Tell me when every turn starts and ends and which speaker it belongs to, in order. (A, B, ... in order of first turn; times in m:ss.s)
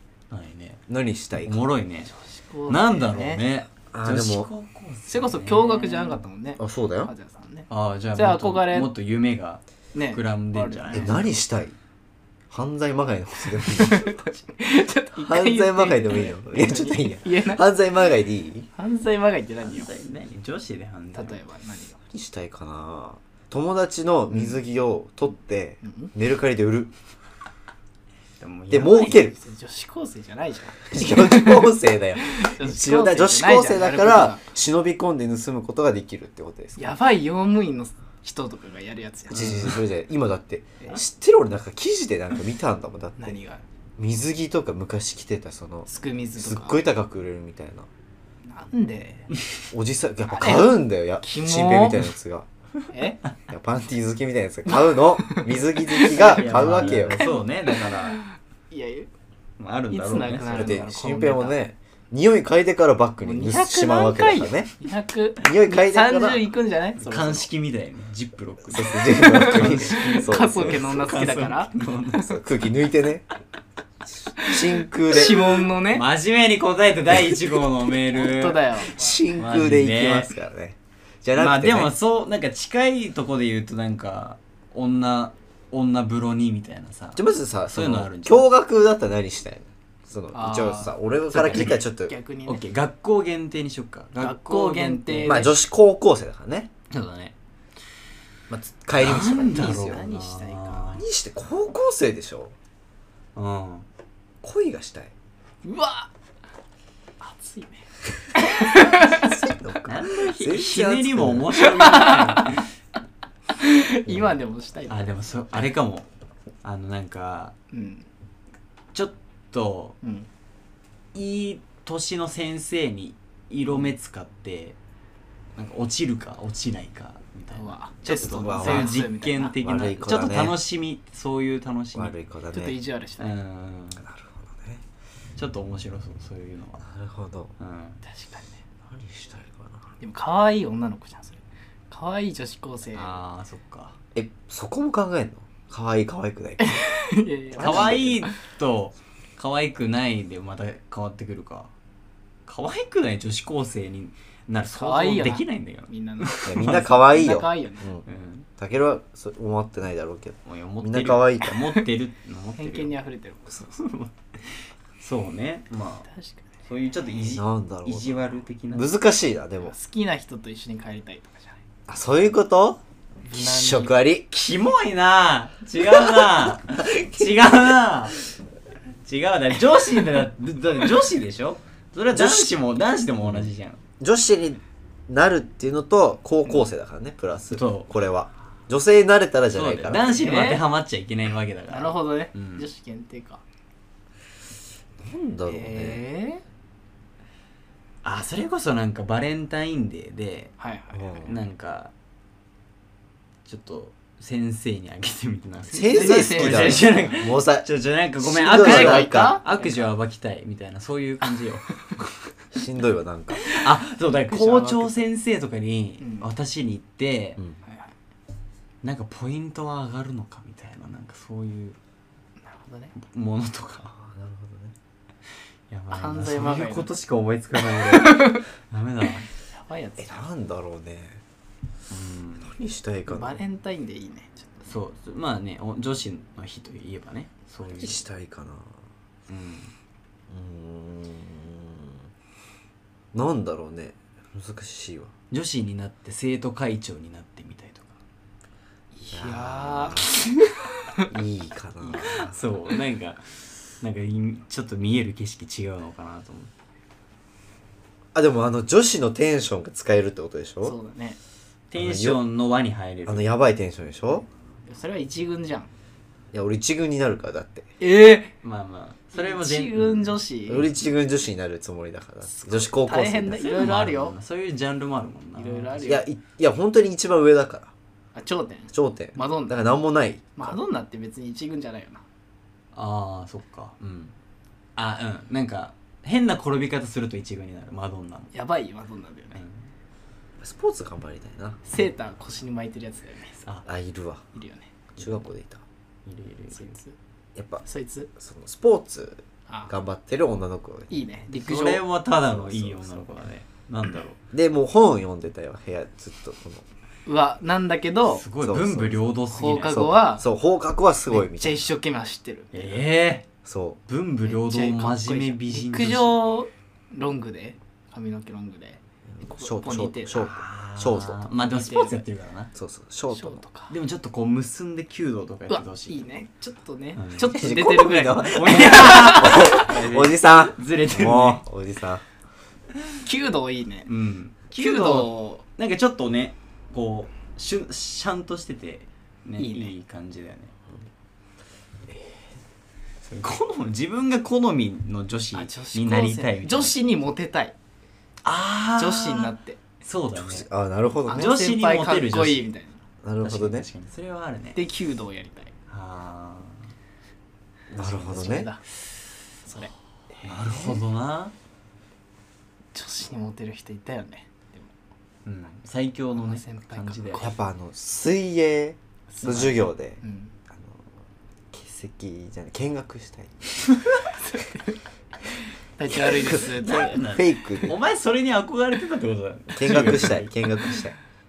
0:00.3-0:00.8 A
0:00.9-0:01.6 B
0:01.4-0:02.1 A
0:02.1-0:03.4 C
0:02.7-0:06.2 A
0:03.9-0:04.5 B
0:05.1-0:08.9 C
0:06.6-0:07.1 B
0:07.7-0:11.3 A
0:09.9-0:11.3 C
0:10.9-0:11.8 B
0:12.5-0:14.3 B
0:13.6-0:17.6 C
0:15.2-0:18.7 B
0:18.8-0:19.9 C
0:19.6-0:21.4 A
0:21.2-0:22.0 C
0:22.1-0:26.9 B
0:25.8-0:26.1 C
0:28.4-0:29.2 A
0:28.7-0:29.4 B
0:28.8-0:34.4 C
0:30.9-0:36.9 B
0:36.8-0:39.7 C
0:39.3-0:43.4 B
0:43.2-0:43.6 C
0:44.0-0:47.9 B
0:45.9-0:46.8 C
0:48.5-0:49.3 C
0:49.7-0:52.5 B
0:50.3-0:52.1 C
0:52.9-0:53.2 C
0:53.5-0:57.2 B
0:55.2-0:59.1 C
0:56.1-0:58.2 A
0:59.6-1:00.8 A
0:59.9-1:01.6 C
1:00.5-1:04.7 B
1:03.2-1:07.5 C
1:05.4-1:06.5 B
1:07.0-1:12.4 A
1:08.7-1:11.1 B
1:09.2-1:11.7 C
1:12.2-1:13.2 B
1:14.4-1:15.6 B
1:14.4-1:16.0 C
1:15.9-1:18.6 A
1:18.1-1:19.1 C
1:18.9-1:21.9 B
1:19.4-1:20.3 A
1:21.4-1:28.5 A
1:27.2-1:32.1 B
1:30.3-1:31.0 C
1:31.3-1:31.8 A
1:31.5-1:32.7 C
1:32.5-1:35.5 A
1:34.2-1:35.5 C
1:35.2-1:36.7 B
1:36.9-1:37.3 A
1:38.5-1:40.0 B
1:39.0-1:41.0 A
1:39.4-1:41.0 C
1:41.0-1:42.6 B
1:43.4-1:43.9 A
1:44.4-1:45.1 B
1:45.6-1:46.1 C
1:47.2-1:49.3 C
1:48.6-1:51.5 B
1:49.8-1:52.7 A
1:51.6-1:52.5 C
1:53.6-1:55.0 C
1:54.9-1:56.1 A
1:56.6-1:57.6 A
1:57.7-1:58.1 C
1:58.9-2:00.0 A
2:00.0-2:00.3 C
2:01.1-2:04.8 A
2:05.6-2:12.2 A
2:07.5-2:09.6 C
2:08.0-2:09.0 B
2:09.6-2:10.6 B
2:12.0-2:12.8 B
2:12.5-2:13.3 C
2:13.2-2:14.0 A
2:14.0-2:14.8 B
2:15.4-2:16.9 A
2:16.8-2:17.5 B
2:17.6-2:18.0 A
2:18.0-2:18.6 C
2:18.8-2:19.9 B
2:20.0-2:23.2 C
2:22.9-2:24.0 A
2:24.2-2:26.8 B
2:26.6-2:28.3 C
2:27.6-2:28.2 B
2:27.6-2:31.7 A
2:32.5-2:37.0 A
2:34.7-2:37.9 C
2:36.5-2:38.0 B
2:38.1-2:38.5 A
2:38.6-2:41.6 B
2:40.4-2:42.9 A
2:42.6-2:43.7 C
2:43.5-2:46.1 A
2:46.1-2:46.5 C
2:46.7-2:48.9 A
2:47.3-2:49.8 B
2:49.6-2:51.6 C
2:51.9-2:52.8 B
2:53.3-2:54.0 C
2:53.3-2:54.3 B
2:54.3-2:58.2 A
2:59.1-3:03.8 A
3:02.1-3:02.6 B
3:03.2-3:10.2 B
3:07.5-3:07.9 A
3:09.5-3:12.7 A
3:10.0-3:10.6 C
3:11.7-3:13.4 C
3:15.0-3:16.0 B
3:15.5-3:16.4 C
3:18.0-3:20.5 A
3:20.6-3:21.3 C
3:20.9-3:21.4 B
3:21.3-3:21.9 A
3:23.5-3:32.1 A
3:25.7-3:27.0 C
3:25.7-3:27.7 B
3:28.2-3:29.4 B
3:28.5-3:29.9 C
3:32.5-3:33.5 B
3:33.5-3:37.4 A
3:34.3-3:35.0 C
3:36.0-3:36.3 C
3:37.6-3:38.0 C
3:38.8-3:41.8 A
3:42.4-3:42.9 C
3:43.0-3:43.9 A
3:44.0-3:44.7 B
3:45.7-3:49.3 A
3:45.9-3:46.9 C
3:47.7-3:48.4 C
3:49.5-3:50.2 C
3:50.0-3:51.2 B
3:51.9-3:52.5 A
3:52.4-3:53.4 B
3:53.1-3:54.6 C
3:54.7-3:58.0 A
3:57.8-3:58.8 B
3:59.3-3:59.7 A
4:00.3-4:02.0 B
4:03.1-4:05.1 B
4:05.3-4:08.0 A
4:08.9-4:10.3 C
4:09.1-4:10.2 B
4:11.1-4:12.4 B
4:11.9-4:16.5 A
4:18.2-4:20.8 B
4:20.6-4:21.2 C
4:21.7-4:23.3 A
4:21.8-4:22.2 B
4:23.1-4:24.3 B
4:24.7-4:25.7 C
4:26.3-4:27.7 B
4:27.8-4:28.3 C
4:28.4-4:30.2 A
4:29.1-4:30.7 C
4:30.5-4:33.6 B
4:32.3-4:34.2 C
4:33.4-4:35.9 A
4:35.4-4:36.1 C
4:35.8-4:37.7 B
4:38.2-4:39.6 C
4:38.7-4:40.6 B
4:40.4-4:42.0 C
4:42.7-4:44.2 A
4:44.8-4:48.3 A
4:48.3-4:49.4 C
4:49.4-4:49.6 A
4:50.4-4:51.6 B
4:51.7-4:53.4 C
4:53.7-4:54.2 B
4:54.3-4:54.7 C
4:55.0-4:55.6 B
4:56.1-4:56.8 A
4:56.5-4:57.0 C
4:57.4-4:57.6 B
4:57.6-4:58.1 C
4:58.2-5:00.9 B
5:00.9-5:01.8 C
5:01.3-5:04.2 A
5:02.3-5:03.1 B
5:04.3-5:06.6 B
5:07.1-5:08.2 C
5:08.1-5:10.0 A
5:08.4-5:09.1 B
5:09.3-5:10.3 C
5:09.6-5:11.6 B
5:11.1-5:12.8 C
5:12.5-5:13.3 A
5:13.4-5:13.8 B
5:13.9-5:16.3 A
5:14.3-5:20.3 C
5:19.2-5:21.2 B
5:20.2-5:22.5 A
5:21.4-5:22.0 C
5:22.6-5:23.4 B
5:23.1-5:23.7 C
5:23.7-5:26.0 A
5:25.5-5:29.6 C
5:27.0-5:27.3 A
5:27.3-5:32.0 B
5:28.2-5:31.4 A
5:33.0-5:33.9 C
5:33.9-5:40.5 A
5:34.6-5:35.4 C
5:39.4-5:39.7 C
5:43.0-5:46.8 A
5:45.3-5:47.6 C
5:48.2-5:50.5 A
5:48.8-5:49.6 C
5:50.1-5:51.3 B
5:51.1-5:52.8 C
5:51.1-5:52.5 A
5:53.0-5:53.7 B
5:53.2-5:54.6 A
5:54.6-5:55.5 C
5:55.7-5:56.7 A
5:57.7-5:58.5 B
5:57.8-5:58.6 C
5:59.4-6:00.8 C
6:00.2-6:01.3 A
6:02.7-6:04.7 C
6:05.2-6:07.3 A
6:06.2-6:07.3 C
6:07.2-6:10.0 B
6:09.1-6:10.3 C
6:10.5-6:10.8 B
6:11.5-6:13.7 B
6:14.3-6:14.7 C
6:15.8-6:17.0 C
6:15.9-6:17.8 B
6:16.6-6:20.8 A
6:19.6-6:21.0 B